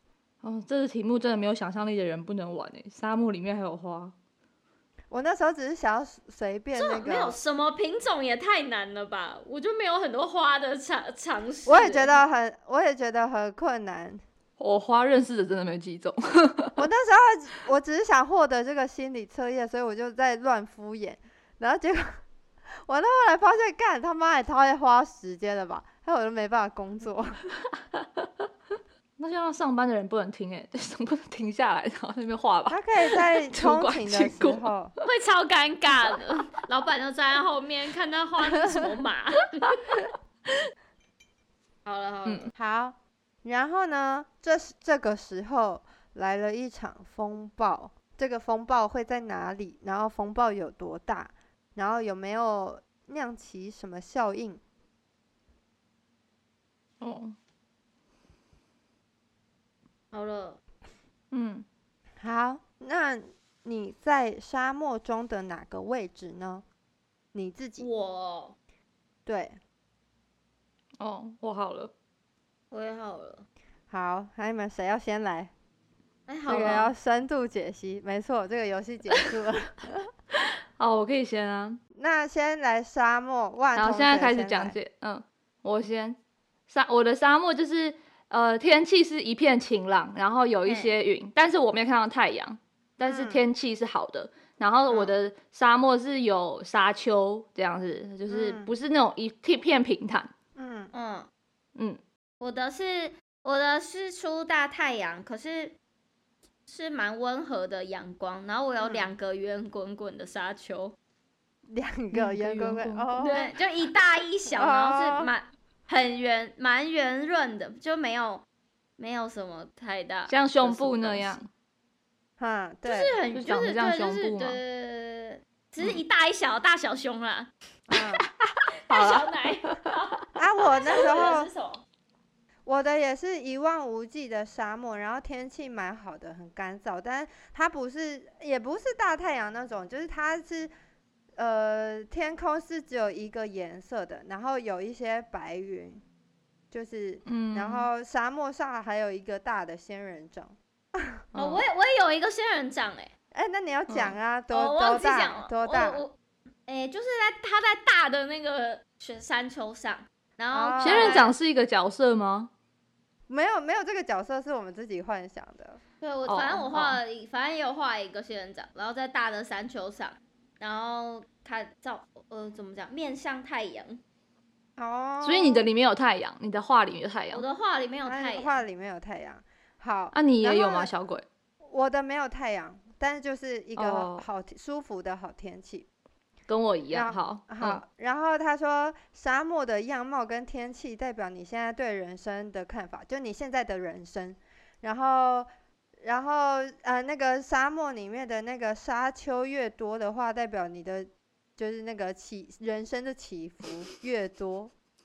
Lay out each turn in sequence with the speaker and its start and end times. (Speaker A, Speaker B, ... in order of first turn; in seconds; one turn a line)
Speaker A: 0.4-4.1
Speaker B: 5.1-7.4
Speaker C: 6.8-12.2
Speaker B: 11.7-14.2
Speaker A: 14.6-16.8
Speaker B: 16.8-22.2
Speaker B: 22.9-27.4
Speaker A: 27.9-28.3
Speaker A: 29.2-34.7
Speaker B: 32.7-34.9
Speaker C: 35.0-39.9
Speaker A: 39.7-40.0
Speaker C: 41.8-42.5
Speaker B: 42.5-54.6
Speaker A: 57.0-57.3
Speaker C: 60.1-60.6
Speaker A: 61.3-61.6
Speaker B: 62.2-66.6
Speaker B: 67.3-67.8
Speaker C: 67.8-68.5
Speaker B: 69.2-69.6
Speaker A: 71.0-71.9
Speaker C: 72.7-73.4
Speaker B: 73.9-75.5
Speaker C: 76.3-76.9
Speaker B: 76.5-80.1
Speaker A: 80.8-81.8
Speaker B: 81.9-84.8
Speaker A: 83.7-86.2
Speaker A: 86.7-100.3
Speaker C: 90.7-90.9
Speaker B: 93.0-93.4
Speaker B: 98.3-98.7
Speaker B: 100.5-100.9
Speaker C: 100.9-101.3
Speaker C: 102.4-105.8
Speaker C: 106.7-110.9
Speaker B: 108.8-109.1
Speaker B: 111.7-113.5
Speaker A: 112.1-113.1
Speaker C: 113.2-118.4
Speaker B: 114.5-115.3
Speaker C: 119.0-121.4
Speaker A: 120.3-121.5
Speaker B: 122.4-123.2
Speaker C: 122.8-127.5
Speaker A: 123.3-124.6
Speaker B: 127.9-128.2
Speaker A: 128.9-129.9
Speaker C: 128.9-130.2
Speaker B: 130.3-131.5
Speaker C: 130.7-131.8
Speaker B: 132.6-140.7
Speaker B: 141.3-146.0
Speaker B: 146.7-151.2
Speaker A: 147.2-147.9
Speaker A: 151.3-151.6
Speaker C: 151.3-153.1
Speaker B: 153.3-156.0
Speaker A: 153.9-154.1
Speaker C: 154.5-156.1
Speaker C: 156.7-161.3
Speaker B: 160.5-161.3
Speaker A: 160.8-162.5
Speaker B: 163.3-165.8
Speaker C: 166.0-174.0
Speaker A: 166.2-167.0
Speaker B: 174.8-175.6
Speaker A: 175.2-177.4
Speaker C: 177.3-178.6
Speaker B: 178.1-180.9
Speaker A: 180.1-181.2
Speaker B: 181.6-185.8
Speaker A: 183.8-184.2
Speaker A: 186.5-187.8
Speaker B: 186.9-195.5
Speaker B: 196.0-204.7